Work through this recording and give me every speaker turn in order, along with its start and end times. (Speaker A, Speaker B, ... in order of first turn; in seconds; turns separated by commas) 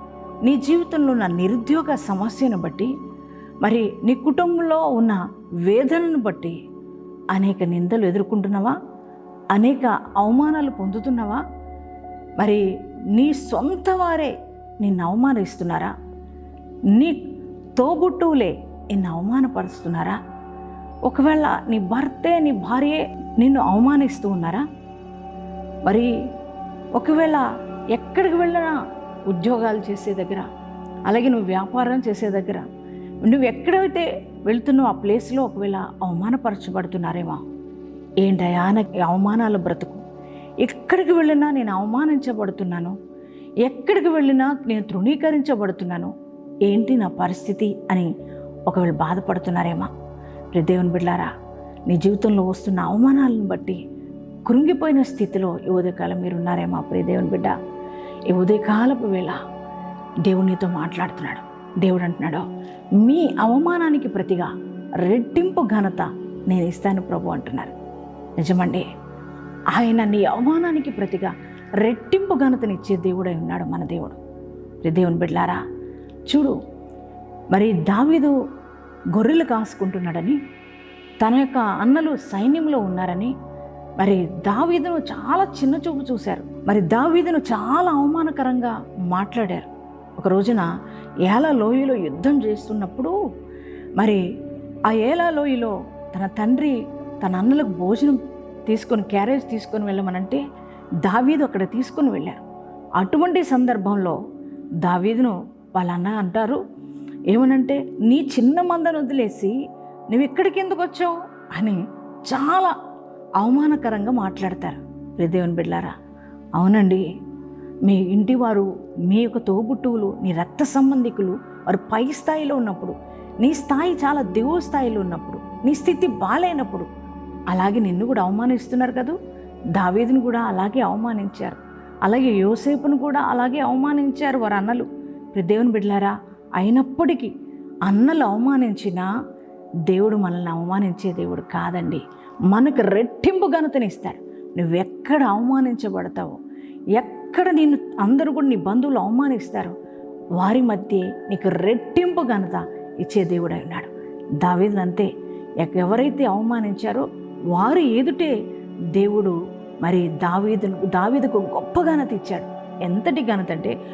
Speaker A: 0.4-2.9, Speaker A: 3.6-6.5, Speaker A: 7.3-8.7, Speaker A: 9.5-11.4, Speaker A: 13.1-15.9, Speaker A: 17.8-20.2, Speaker A: 21.1-24.6, Speaker A: 27.0-28.8, Speaker A: 29.3-30.5, Speaker A: 31.1-32.6, Speaker A: 33.2-37.4, Speaker A: 38.2-40.0, Speaker A: 40.6-43.0, Speaker A: 43.6-46.1, Speaker A: 46.7-48.1, Speaker A: 48.7-49.9, Speaker A: 50.5-51.3, Speaker A: 51.9-53.8, Speaker A: 54.5-57.5, Speaker A: 58.3-59.4, Speaker A: 60.2-62.4, Speaker A: 63.0-64.5, Speaker A: 65.0-67.7, Speaker A: 68.4-68.8, Speaker A: 69.7-74.2, Speaker A: 74.8-75.6, Speaker A: 76.3-76.5, Speaker A: 77.5-78.3, Speaker A: 79.1-80.4, Speaker A: 81.2-83.3, Speaker A: 84.0-89.7, Speaker A: 90.2-90.7, Speaker A: 91.3-93.1, Speaker A: 94.9-100.4, Speaker A: 101.0-102.4, Speaker A: 103.0-104.2, Speaker A: 104.8-106.6, Speaker A: 107.3-109.5, Speaker A: 110.1-112.7, Speaker A: 113.4-115.9, Speaker A: 116.6-117.0, Speaker A: 117.8-126.9, Speaker A: 127.5-129.2, Speaker A: 129.8-137.3, Speaker A: 137.8-139.1, Speaker A: 139.9-146.4, Speaker A: 147.0-149.7, Speaker A: 150.4-153.9, Speaker A: 154.4-155.1, Speaker A: 155.6-158.3, Speaker A: 158.9-163.7